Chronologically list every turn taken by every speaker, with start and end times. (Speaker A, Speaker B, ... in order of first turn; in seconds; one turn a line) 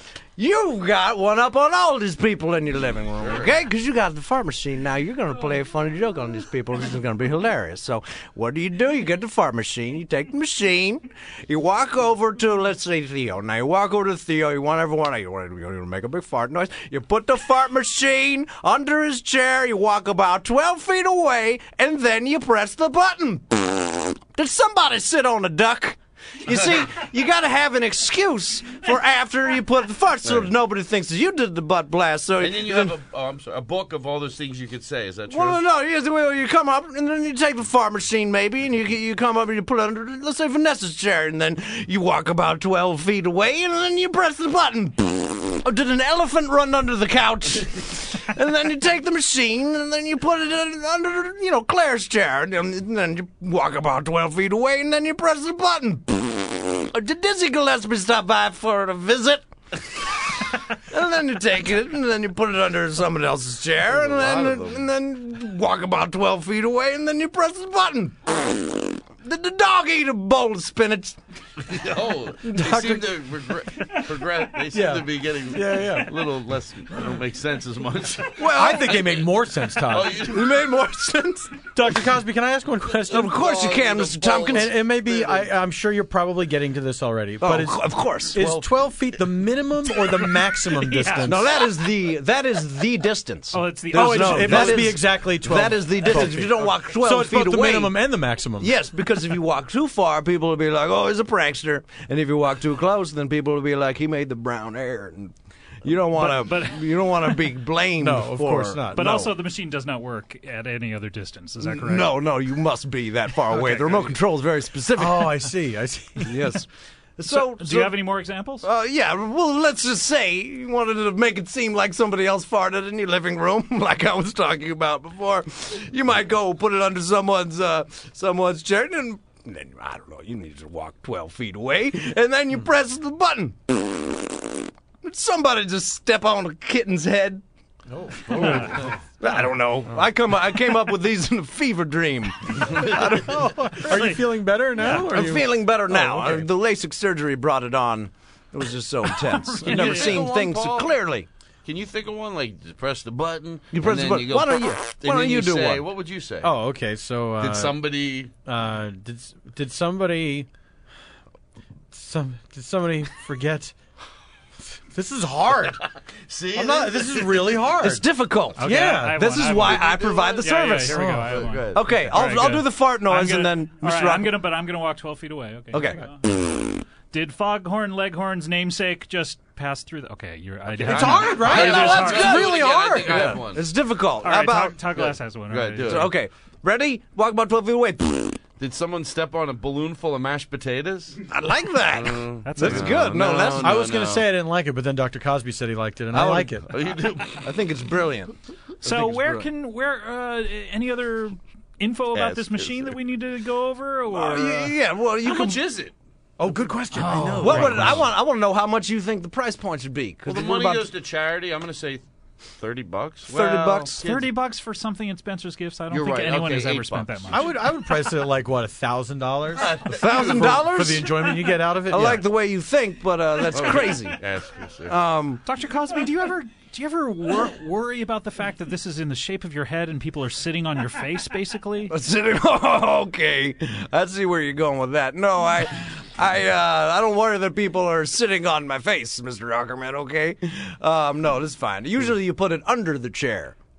Speaker A: 0.4-33.0
Speaker B: 3.2-3.6
Speaker B: 32.4-35.6
Speaker A: 35.3-71.2
Speaker B: 63.9-64.9
Speaker B: 71.6-80.5
Speaker A: 72.4-73.1
Speaker C: 74.7-76.1
Speaker A: 78.3-79.3
Speaker C: 78.5-80.2
Speaker A: 80.1-81.7
Speaker C: 81.7-83.3
Speaker A: 83.1-84.8
Speaker B: 83.1-85.5
Speaker C: 84.4-91.5
Speaker A: 87.4-88.4
Speaker B: 88.3-89.2
Speaker D: 90.6-91.5
Speaker A: 91.2-98.0
Speaker D: 93.5-95.0
Speaker C: 93.9-98.7
Speaker A: 98.6-109.3
Speaker D: 106.1-107.4
Speaker C: 108.0-109.2
Speaker D: 108.9-112.2
Speaker A: 111.6-115.5
Speaker D: 113.5-114.1
Speaker C: 114.9-116.4
Speaker A: 116.2-118.0
Speaker D: 117.3-118.7
Speaker A: 118.6-137.4
Speaker C: 137.9-138.9
Speaker A: 138.3-143.4
Speaker D: 138.4-138.8
Speaker C: 142.7-146.5
Speaker D: 143.9-145.1
Speaker A: 144.8-151.3
Speaker D: 149.2-150.2
Speaker B: 149.6-151.0
Speaker B: 151.6-156.5
Speaker A: 153.7-155.8
Speaker C: 156.4-157.8
Speaker B: 157.4-158.3
Speaker C: 158.4-160.5
Speaker C: 161.9-163.7
Speaker C: 164.8-165.8
Speaker B: 166.3-167.7
Speaker C: 166.5-168.0
Speaker A: 167.8-171.0
Speaker D: 168.6-176.2
Speaker C: 168.6-169.2
Speaker B: 169.4-171.8
Speaker C: 170.9-171.4
Speaker A: 171.7-174.4
Speaker A: 175.7-176.7
Speaker D: 177.1-182.5
Speaker C: 180.7-183.4
Speaker B: 180.9-183.7
Speaker A: 181.5-182.4
Speaker A: 183.1-184.8
Speaker D: 184.2-186.1
Speaker B: 184.9-186.1
Speaker A: 185.8-188.4
Speaker B: 188.6-191.3
Speaker A: 191.3-193.8
Speaker B: 191.9-194.3
Speaker D: 192.4-193.1
Speaker C: 193.6-196.7
Speaker A: 196.1-196.6
Speaker B: 196.7-197.4
Speaker A: 197.4-199.5
Speaker D: 198.8-204.8
Speaker B: 202.1-202.9
Speaker A: 204.1-205.6
Speaker B: 205.2-205.9
Speaker C: 206.4-207.9
Speaker B: 206.9-208.1
Speaker D: 206.9-208.0
Speaker A: 207.4-210.9
Speaker B: 210.2-214.3
Speaker A: 213.2-214.0
Speaker D: 214.0-217.5
Speaker B: 215.9-217.4
Speaker C: 217.3-222.2
Speaker B: 219.5-220.7
Speaker A: 219.9-224.2
Speaker B: 223.5-225.0
Speaker A: 224.8-225.4
Speaker D: 225.4-231.9
Speaker A: 231.9-243.6